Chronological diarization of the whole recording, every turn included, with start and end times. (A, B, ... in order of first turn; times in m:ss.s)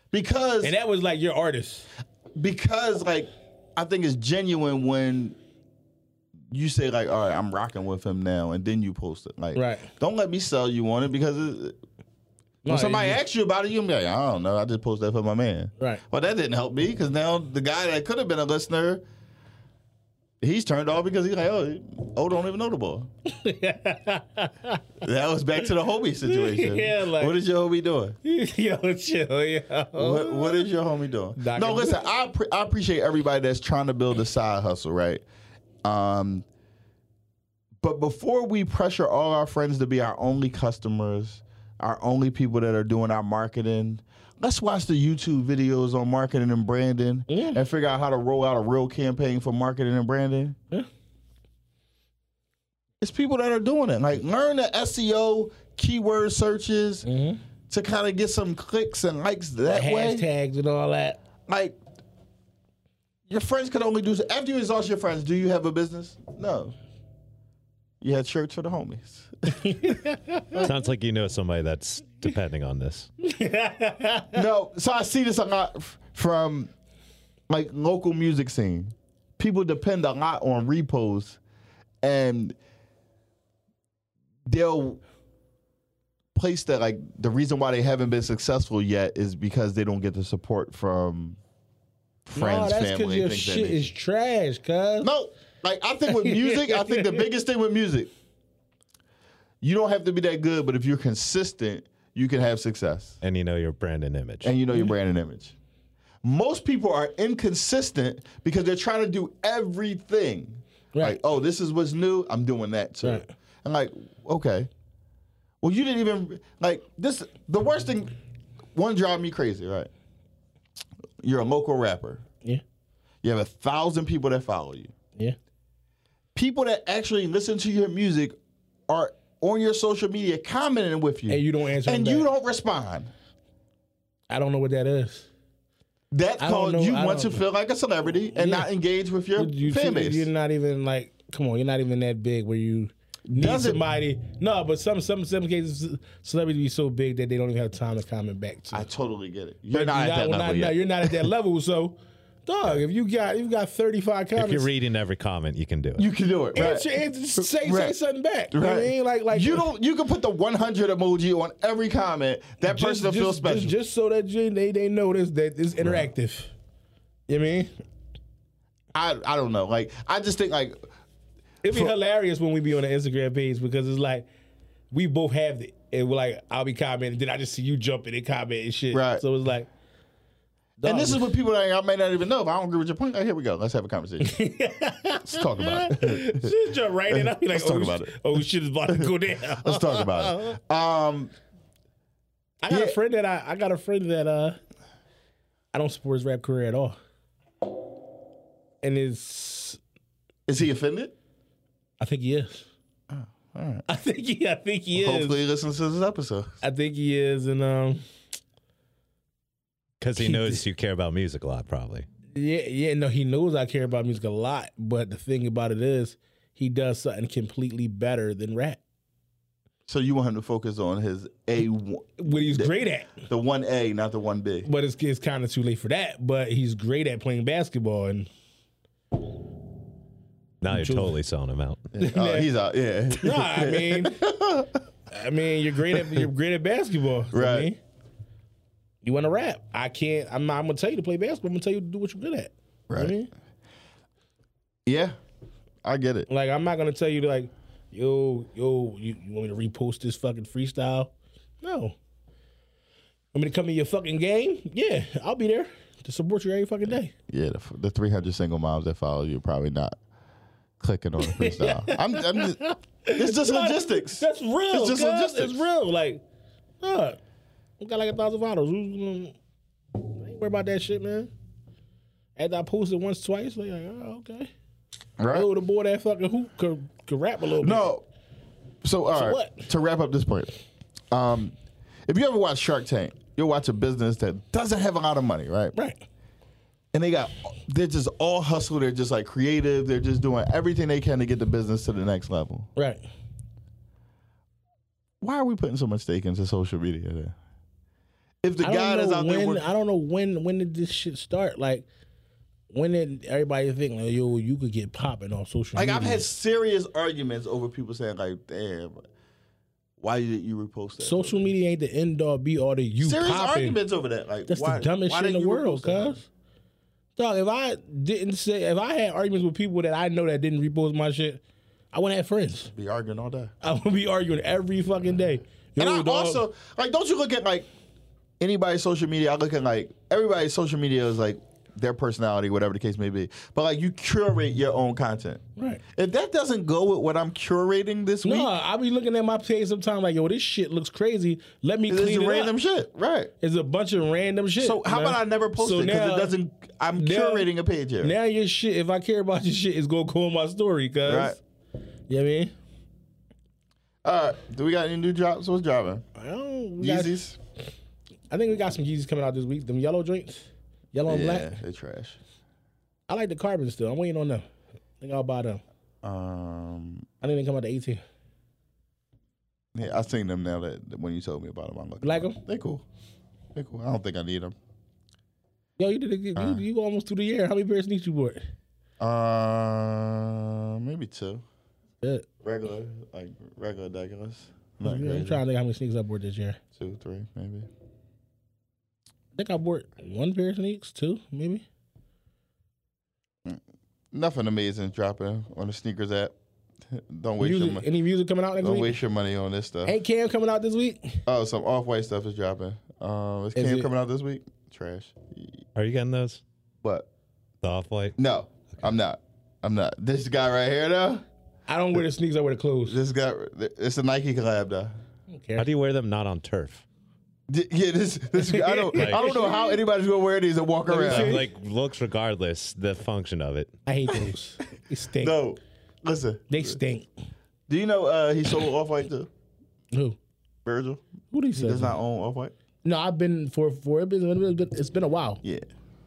0:00.1-0:00.8 A
0:00.6-0:01.9 B
0:02.4-0:05.4 A
0:06.5-0:11.8 A
0:09.6-0:09.9 B
0:12.6-0:13.2 B
0:12.7-0:19.0 A
0:20.4-0:23.1 A
0:23.3-0:24.8 B
0:25.0-0:28.2 A
0:26.3-0:27.4 B
0:28.2-0:30.7 B
0:30.0-0:35.2 A
0:31.4-0:32.0 B
0:35.8-0:36.5 A
0:37.8-0:50.6 A
0:47.3-0:47.6 B
0:53.0-0:57.1 A
0:57.0-0:57.4 B
0:57.7-1:00.2 A
0:59.7-1:01.2 B
1:01.5-1:01.8 A
1:03.3-1:06.8 A
1:08.0-1:09.9 A
1:09.6-1:10.7 B
1:10.6-1:13.1 C
1:13.2-1:14.4 B
1:14.3-1:16.7 A
1:17.5-1:21.4 A
1:22.0-1:22.6 A
1:24.5-1:25.0 A
1:26.4-1:31.4 A
1:32.3-1:33.9 A
1:32.4-1:35.1 B
1:35.0-1:38.1 A
1:36.1-1:37.2 B
1:39.6-1:43.2 A
1:43.2-1:44.5 C
1:44.4-1:45.5 A
1:46.2-1:54.7 A
1:53.0-1:53.3 B
1:55.6-1:58.2 A
1:58.8-1:59.9 A
2:01.2-2:02.2 A
2:03.2-2:04.9 A
2:06.4-2:08.4 A
2:08.9-2:13.1 A
2:11.3-2:12.3 B
2:14.3-2:15.3 B
2:16.1-2:20.3 A
2:16.4-2:17.4 B
2:18.4-2:18.7 B
2:19.4-2:28.9 B
2:23.3-2:23.8 A
2:28.7-2:31.3 A
2:29.7-2:34.7 B
2:34.4-2:36.1 C
2:36.0-2:36.9 A
2:36.6-2:39.7 B
2:37.4-2:38.0 A
2:38.5-2:43.7 A
2:42.6-2:46.5 B
2:47.3-2:47.7 B
2:48.9-2:50.8 A
2:51.6-2:54.3 B
2:54.9-2:59.7 B
2:58.9-2:59.2 A
3:00.8-3:01.3 B
3:00.8-3:04.4 A
3:04.2-3:10.6 B
3:05.2-3:06.5 A
3:07.1-3:08.2 A
3:08.9-3:11.3 A
3:12.6-3:14.6 B
3:12.7-3:13.0 A
3:15.7-3:17.0 B
3:18.8-3:19.8 B
3:20.5-3:21.1 A
3:22.0-3:22.7 B
3:23.1-3:23.8 A
3:23.9-3:25.4 B
3:25.0-3:26.6 A
3:26.6-3:28.0 B
3:30.0-3:32.1 C
3:30.2-3:30.6 B
3:32.3-3:38.8 B
3:39.9-3:44.7 A
3:42.2-3:43.2 B
3:44.6-3:48.3 B
3:50.6-3:51.8 C
3:50.7-3:51.1 B
3:51.9-3:54.8 A
3:52.0-3:52.5 B
3:53.1-3:54.2 B
3:55.1-3:57.8 B
3:55.9-3:56.2 A
3:57.3-3:57.7 A
3:59.0-4:03.3 B
4:02.9-4:03.2 A
4:04.9-4:05.2 A
4:05.8-4:06.3 A
4:06.3-4:12.0 B
4:13.3-4:17.1 B
4:17.3-4:20.0 A
4:20.8-4:22.6 A
4:21.2-4:26.2 B
4:23.1-4:25.7 A
4:26.8-4:27.2 B
4:27.8-4:29.4 B
4:30.2-4:31.3 B
4:32.4-4:34.5 B
4:35.2-4:35.5 A
4:35.3-4:37.9 B
4:37.6-4:38.0 A
4:38.8-4:40.5 A
4:39.2-4:39.7 B
4:41.1-4:41.5 A
4:42.1-4:45.7 A
4:45.7-4:46.0 B
4:46.9-4:52.7 A
4:52.8-4:53.0 B
4:55.2-4:57.4 A
4:58.4-4:59.6 A
4:58.6-5:01.9 B
5:02.7-5:06.2 B
5:05.8-5:09.1 A
5:10.0-5:11.4 A
5:11.0-5:13.8 B
5:13.0-5:16.2 A
5:14.5-5:16.3 B
5:17.2-5:21.4 B
5:21.9-5:22.7 B
5:22.7-5:23.5 A
5:23.6-5:26.4 B
5:25.8-5:27.7 A
5:28.4-5:35.4 A
5:35.9-5:38.5 A
5:38.2-5:42.6 B
5:41.9-5:43.3 A
5:43.4-5:46.3 B
5:44.6-5:48.1 A
5:47.0-5:47.5 B
5:48.0-5:51.4 B
5:51.1-5:51.4 A
5:52.1-5:52.5 B
5:54.0-5:56.0 A
5:56.2-5:57.2 B
5:56.8-5:57.4 A
5:58.3-6:01.6 B
6:01.1-6:02.2 A
6:03.1-6:04.4 B
6:05.0-6:05.6 B
6:06.0-6:07.1 A
6:07.2-6:08.0 B
6:09.8-6:12.8 A
6:12.0-6:12.4 B
6:13.6-6:14.6 A
6:15.8-6:18.4 B
6:16.4-6:16.6 A
6:19.0-6:21.4 A
6:22.4-6:25.4 A
6:24.8-6:26.6 B
6:26.8-6:27.7 A
6:29.4-6:31.6 B
6:34.1-6:36.3 A
6:36.9-6:37.9 A
6:37.4-6:39.0 B
6:38.6-6:40.0 A
6:39.8-6:41.2 B
6:41.3-6:45.3 A
6:43.6-6:43.9 B
6:45.8-6:46.4 C
6:46.8-6:47.1 A
6:47.6-6:48.2 C
6:48.2-6:51.2 A
6:51.7-6:53.0 B
6:52.9-6:55.0 A
6:55.3-6:55.6 B
6:55.6-6:56.8 C
6:57.5-7:01.4 A
6:58.5-6:59.8 B
6:59.0-6:59.2 C
7:00.9-7:01.5 B
7:01.1-7:03.7 C
7:03.9-7:05.4 B
7:05.2-7:06.8 A
7:06.5-7:07.1 B
7:07.7-7:09.3 A
7:09.9-7:10.2 B
7:10.6-7:11.0 A
7:11.3-7:12.0 B
7:11.5-7:12.5 A
7:12.8-7:15.4 B